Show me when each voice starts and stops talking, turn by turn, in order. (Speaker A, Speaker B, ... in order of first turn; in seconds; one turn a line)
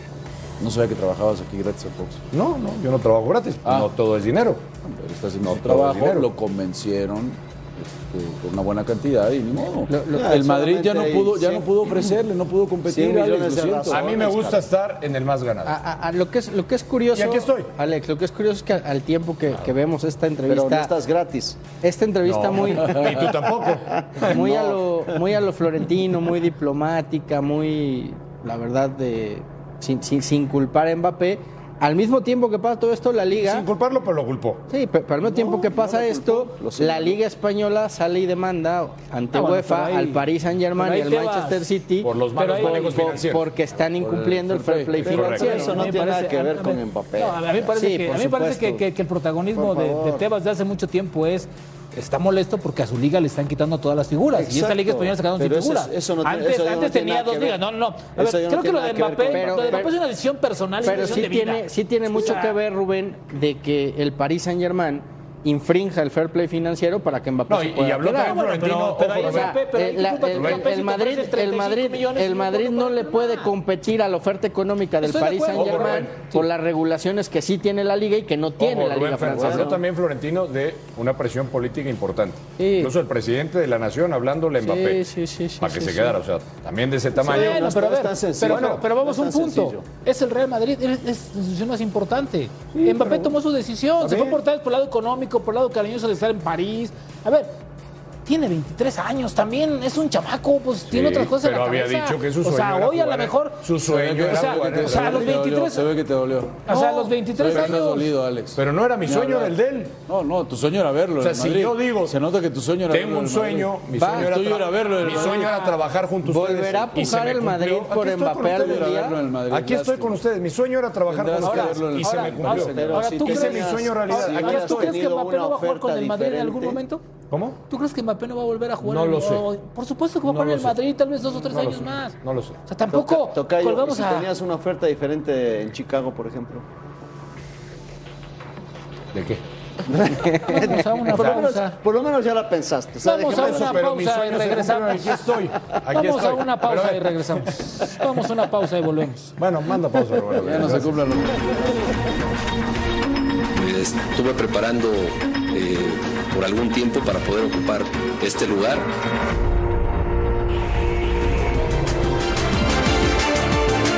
Speaker A: 0.6-2.2
Speaker B: 2.3-4.6
Speaker A: 3.6-3.9
Speaker A: 4.8-14.1
Speaker B: 5.4-6.3
Speaker C: 9.9-10.4
Speaker D: 10.1-11.9
Speaker D: 12.8-14.6
Speaker B: 13.9-15.8
Speaker C: 15.7-20.9
Speaker B: 17.1-17.7
Speaker D: 20.5-21.6
Speaker C: 21.8-23.6
Speaker B: 22.2-24.5
Speaker D: 24.1-25.0
Speaker C: 24.2-33.7
Speaker B: 33.4-34.6
Speaker C: 34.7-45.9
Speaker D: 35.2-37.2
Speaker E: 39.3-41.7
Speaker B: 42.0-43.4
Speaker E: 42.3-43.2
Speaker A: 43.9-45.2
Speaker B: 45.0-45.5
Speaker D: 45.1-48.8
Speaker E: 45.3-62.6
Speaker C: 47.8-48.3
Speaker D: 49.5-50.2
Speaker D: 54.3-57.6
Speaker D: 58.1-59.9
Speaker C: 59.3-59.9
Speaker C: 60.8-79.8
Speaker B: 67.5-69.6
Speaker E: 68.1-73.5
Speaker B: 70.3-70.7
Speaker E: 75.0-76.4
Speaker B: 75.5-76.2
Speaker B: 78.6-85.0
Speaker D: 79.3-79.7
Speaker C: 82.6-82.9
Speaker C: 84.6-86.2
Speaker B: 85.6-87.7
Speaker D: 87.1-89.8
Speaker E: 87.2-97.6
Speaker B: 88.5-88.8
Speaker B: 94.0-94.4
Speaker E: 98.2-103.6
Speaker B: 100.9-105.4
Speaker A: 103.8-115.6
Speaker E: 104.2-105.9
Speaker E: 106.7-108.1
Speaker B: 107.4-107.8
Speaker B: 108.5-110.0
Speaker B: 111.2-112.2
Speaker B: 112.9-125.0
Speaker C: 114.0-114.3
Speaker E: 115.2-115.8
Speaker C: 116.2-119.2
Speaker A: 118.5-120.2
Speaker A: 121.1-123.2
Speaker E: 121.4-127.0
Speaker D: 122.8-126.8
Speaker B: 127.3-127.6
Speaker E: 127.7-134.3
Speaker B: 128.8-129.4
Speaker B: 130.2-130.8
Speaker B: 131.4-132.6
Speaker D: 132.9-136.6
Speaker B: 139.1-139.4
Speaker D: 139.9-143.8
Speaker E: 140.4-141.8
Speaker E: 143.0-145.2
Speaker B: 143.3-147.5
Speaker E: 145.9-149.3
Speaker B: 149.4-151.0
Speaker A: 150.4-151.8
Speaker F: 153.5-158.9